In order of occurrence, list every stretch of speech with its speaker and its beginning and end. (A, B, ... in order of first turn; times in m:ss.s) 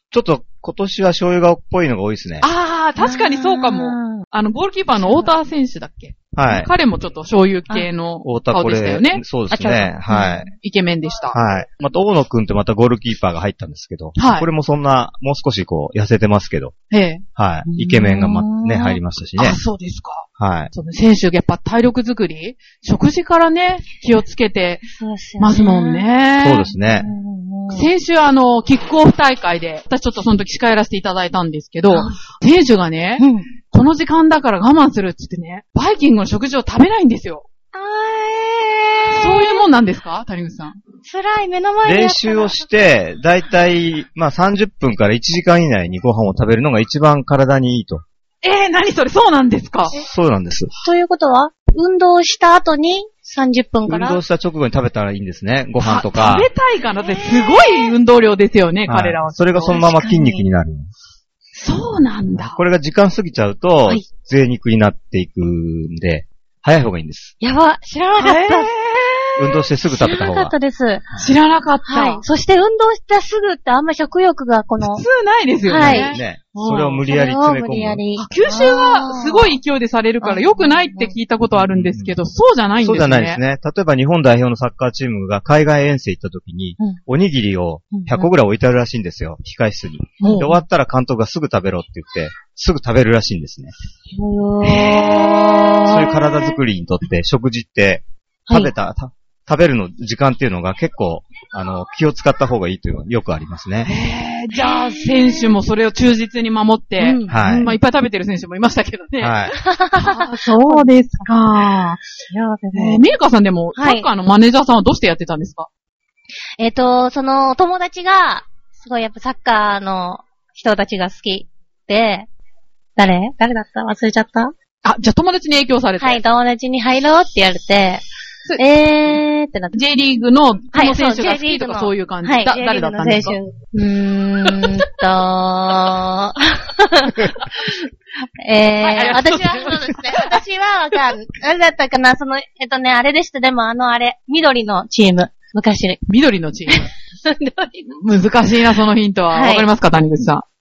0:00.1-0:02.5 A
0:02.4-0:09.2 B
0:03.0-0:04.2 C
0:05.0-0:05.3 C
0:06.3-0:06.7 A
0:08.2-0:10.4 A
0:09.5-0:10.5 C
0:10.5-0:11.4 B
0:11.3-0:16.7 A
0:14.2-0:14.5 B
0:16.9-0:17.2 B
0:17.4-0:19.6 A
0:17.8-0:19.0 C
0:19.4-0:24.8 B
0:20.4-0:20.7 A
0:25.0-0:26.1 C
0:25.4-0:26.7 B
0:26.4-0:27.1 A
0:26.7-0:27.9 C
0:27.7-0:37.5 B
0:33.2-0:33.4 C
0:37.7-0:39.6 C
0:39.1-0:40.8 B
0:41.0-0:42.6 C
0:41.8-0:48.0 A
0:48.4-0:49.9 B
0:49.9-0:50.7 A
0:50.8-0:54.2 C
0:53.9-0:56.5 A
0:55.8-0:59.8 B
0:57.0-0:57.9 C
0:58.9-1:00.9 A
0:59.7-1:00.4 C
1:01.6-1:02.6 B
1:02.6-1:07.3 A
1:07.4-1:08.7 C
1:08.2-1:09.3 B
1:09.4-1:10.5 A
1:09.9-1:11.0 C
1:11.2-1:12.2 B
1:11.8-1:15.0 C
1:14.8-1:17.0 B
1:15.7-1:16.2 C
1:15.7-1:18.0 A
1:17.1-1:19.5 C
1:18.2-1:23.4 B
1:20.2-1:21.1 C
1:21.7-1:22.1 A
1:22.8-1:33.7 A
1:27.9-1:28.3 C
1:30.2-1:30.6 C
1:34.1-1:36.6 C
1:34.6-1:35.9 B
1:35.8-1:43.9 A
1:43.8-1:52.0 B
1:44.5-1:45.5 C
1:47.0-1:47.7 C
1:47.3-1:47.7 A
1:49.2-1:49.6 A
1:49.6-1:51.3 C
1:52.3-1:53.0 C
1:52.7-1:55.7 B
1:53.8-1:54.1 C
1:56.6-2:02.3 C
2:03.0-2:04.5 C
2:04.8-2:06.2 B
2:06.0-2:08.0 C
2:08.4-2:09.2 B
2:08.6-2:09.7 C
2:09.7-2:13.4 B
2:10.7-2:17.8 C
2:18.4-2:26.0 C
2:18.8-2:20.4 B
2:26.1-2:26.9 B
2:26.7-2:28.0 C
2:28.0-2:30.4 B
2:29.3-2:29.7 C